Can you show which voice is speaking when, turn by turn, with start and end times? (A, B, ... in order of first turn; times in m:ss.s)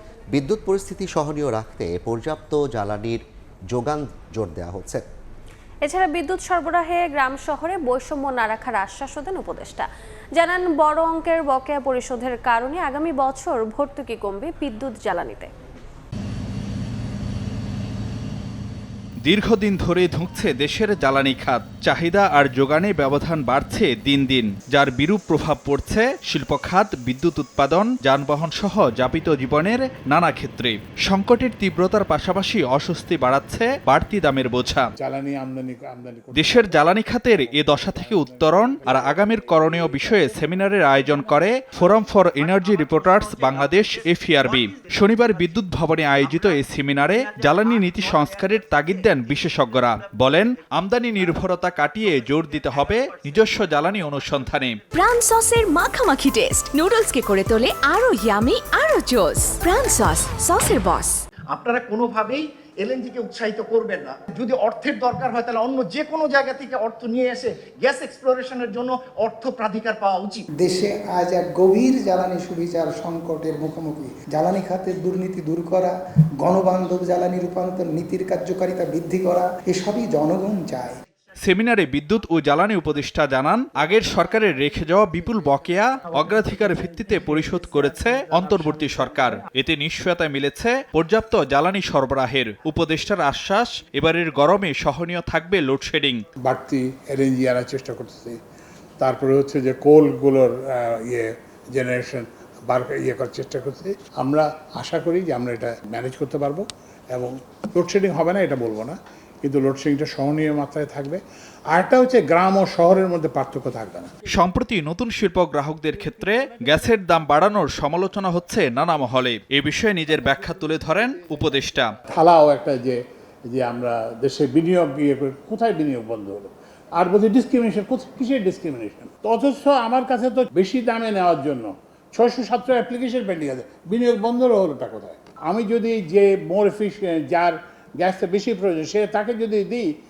0:00.3-0:05.0 A
0:05.8-0:15.5 B
0:19.2-0:34.9 C
0:35.0-0:40.4 D
0:36.4-0:54.8 C
0:54.9-1:01.2 E
1:01.5-1:10.5 F
1:10.6-1:21.0 G
1:21.4-1:36.2 C
1:26.4-1:27.5 F
1:28.3-1:29.0 F
1:36.4-1:38.4 D
1:39.0-1:54.2 D
1:54.3-2:02.0 C
1:55.9-1:57.9 D
1:58.6-1:59.0 D
2:00.1-2:19.9 D